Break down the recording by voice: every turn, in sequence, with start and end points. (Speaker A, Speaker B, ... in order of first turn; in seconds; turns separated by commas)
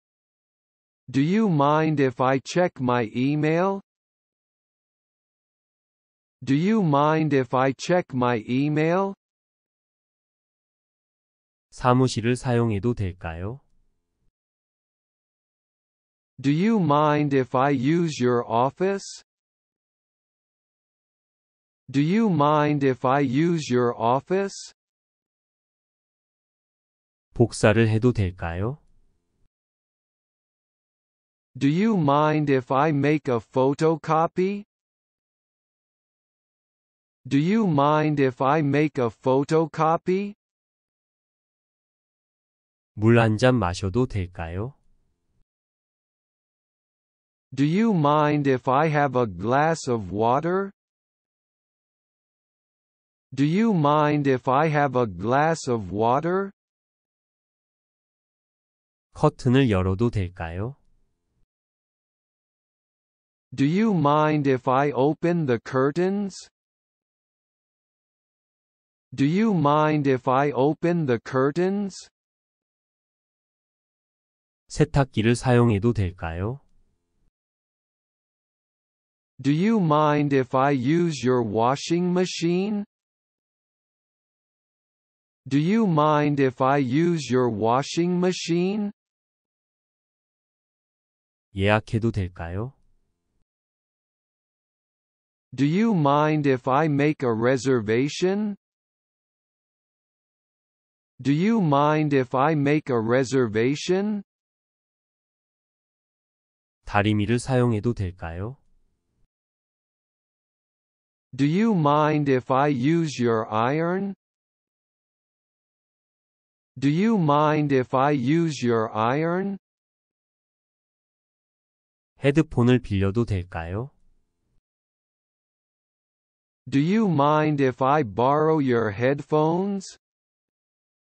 Speaker A: 1.1-3.8, Speaker A: 6.4-9.2, Speaker B: 11.7-13.6, Speaker A: 16.4-19.2, Speaker A: 21.9-24.7, Speaker B: 27.3-28.8, Speaker A: 31.5-34.7, Speaker A: 37.2-40.4, Speaker B: 43.0-44.8, Speaker A: 47.5-50.7, Speaker A: 53.3-56.5, Speaker B: 59.1-60.8, Speaker A: 63.5-66.5, Speaker A: 69.1-72.1, Speaker B: 74.7-76.6, Speaker A: 79.4-82.8, Speaker A: 85.4-88.9, Speaker B: 91.5-92.7, Speaker A: 95.5-98.6, Speaker A: 101.2-104.2, Speaker B: 106.8-108.6, Speaker A: 111.3-114.2, Speaker A: 116.8-119.6, Speaker B: 122.2-123.9, Speaker A: 126.7-130.0